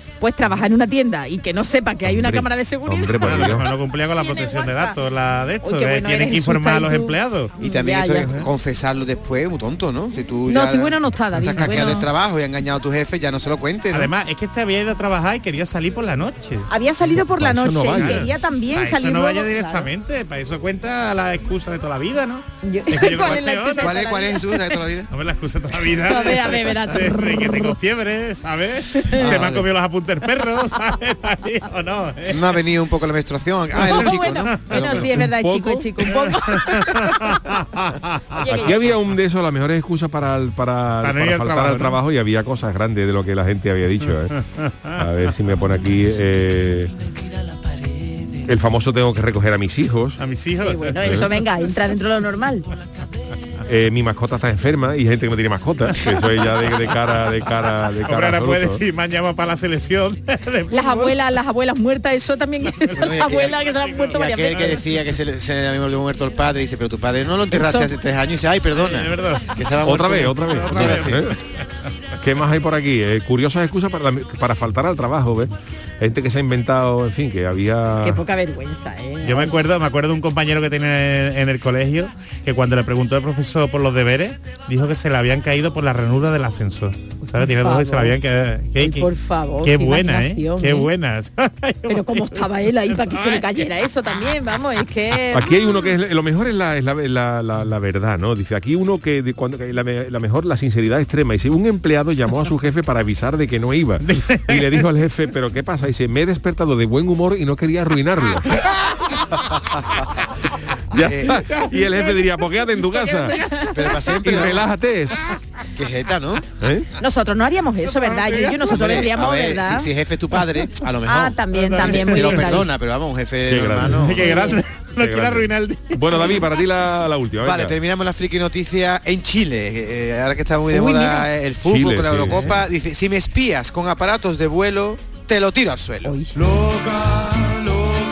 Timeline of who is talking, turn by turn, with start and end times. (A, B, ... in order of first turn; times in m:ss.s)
0:00.2-0:03.6 A
0:02.1-0:03.7 B
0:03.2-0:07.6 C
0:04.1-0:05.0 A
0:05.6-0:08.4 A
0:07.6-0:14.1 D
0:08.1-0:08.5 C
0:10.5-0:12.1 A
0:11.6-0:12.1 C
0:13.9-0:16.7 C
0:16.7-0:19.9 A
0:17.3-0:18.3 B
0:17.9-0:24.0 C
0:22.6-0:25.0 A
0:23.1-0:25.1 D
0:25.1-0:32.6 C
0:26.0-0:27.8 A
0:28.9-0:29.4 A
0:29.2-0:29.7 D
0:32.3-0:35.2 D
0:33.8-0:37.4 A
0:33.9-0:35.1 C
0:35.2-0:36.0 B
0:36.1-0:38.7 C
0:38.4-0:39.0 A
0:38.6-0:44.4 B
0:41.0-0:42.0 C
0:44.6-0:45.0 C
0:45.0-0:46.9 B
0:48.4-0:50.2 B
0:50.2-0:51.2 C
0:50.6-0:52.6 A
0:51.0-0:51.3 B
0:53.6-0:58.8 B
0:56.0-0:56.2 C
0:58.0-1:01.1 C
1:00.7-1:04.8 A
1:02.9-1:03.6 D
1:03.7-1:04.8 C
1:04.1-1:11.2 D
1:07.5-1:07.9 A
1:08.7-1:09.6 C
1:09.8-1:11.4 B
1:10.5-1:11.3 C
1:12.2-1:18.2 B
1:18.0-1:19.6 A
1:19.2-1:29.1 C
1:27.4-1:28.2 A
1:28.8-1:30.9 A
1:29.6-1:33.5 C
1:31.9-1:35.9 A
1:35.3-1:48.6 B
1:44.0-1:44.9 C
1:50.9-1:53.6 B
1:51.0-1:51.4 D
1:51.4-1:54.2 C
1:53.7-1:54.6 D
1:54.2-1:55.2 B
1:55.7-1:56.5 D
1:56.5-1:56.9 B
1:57.0-1:59.9 A
1:57.8-1:59.0 C
1:58.7-2:04.5 D
2:01.0-2:02.7 A
2:01.6-2:02.5 C
2:03.5-2:04.1 B
2:03.9-2:06.4 C
2:04.2-2:04.6 A
2:05.0-2:07.8 B
2:07.4-2:16.2 D
2:10.7-2:11.3 A
2:11.6-2:12.6 B
2:16.0-2:16.4 A